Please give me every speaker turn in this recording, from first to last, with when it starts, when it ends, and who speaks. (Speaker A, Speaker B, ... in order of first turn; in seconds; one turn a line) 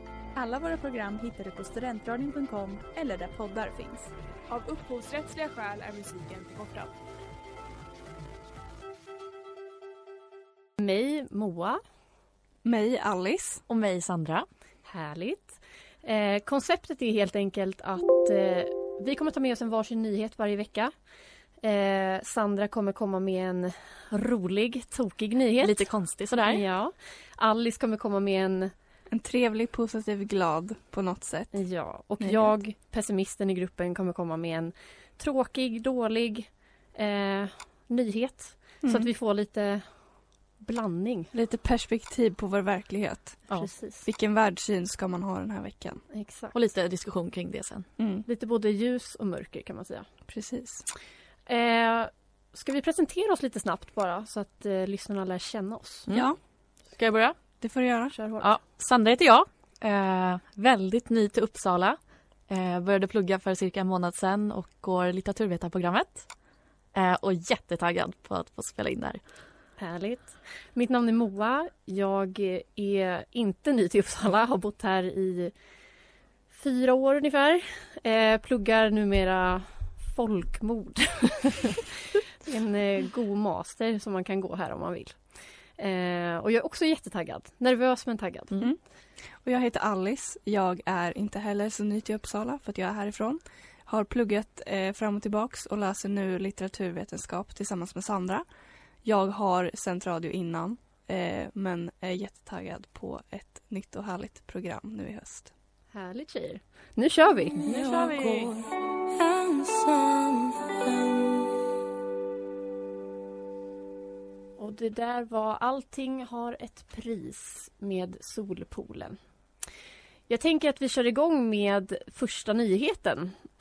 Speaker A: 0.3-4.1
Speaker B: 4.5-6.9
Speaker C: 10.8-11.8
Speaker D: 12.6-13.6
Speaker E: 13.7-14.4
Speaker C: 14.9-20.9
Speaker C: 21.6-25.9
Speaker E: 25.6-26.6
Speaker C: 26.4-28.7
Speaker D: 29.1-31.6
Speaker C: 31.5-39.9
Speaker D: 32.2-32.5
Speaker D: 38.8-39.1
Speaker C: 40.6-41.3
Speaker D: 41.3-43.5
Speaker C: 43.5-44.1
Speaker D: 44.0-46.0
Speaker C: 46.1-46.5
Speaker E: 46.5-47.9
Speaker D: 48.0-48.3
Speaker C: 48.3-50.1
Speaker D: 50.3-50.9
Speaker C: 51.5-56.1
Speaker D: 56.1-56.4
Speaker E: 57.0-57.4
Speaker D: 57.6-58.2
Speaker C: 58.1-58.5
Speaker E: 58.4-62.0
Speaker E: 62.5-66.3
Speaker E: 66.9-69.2
Speaker C: 69.8-75.5
Speaker C: 76.5-85.2
Speaker C: 85.8-88.5
Speaker D: 89.4-98.4
Speaker D: 99.0-105.5
Speaker C: 105.9-107.8
Speaker E: 107.7-108.5
Speaker D: 107.7-111.1
Speaker C: 114.6-119.2
Speaker C: 120.3-123.4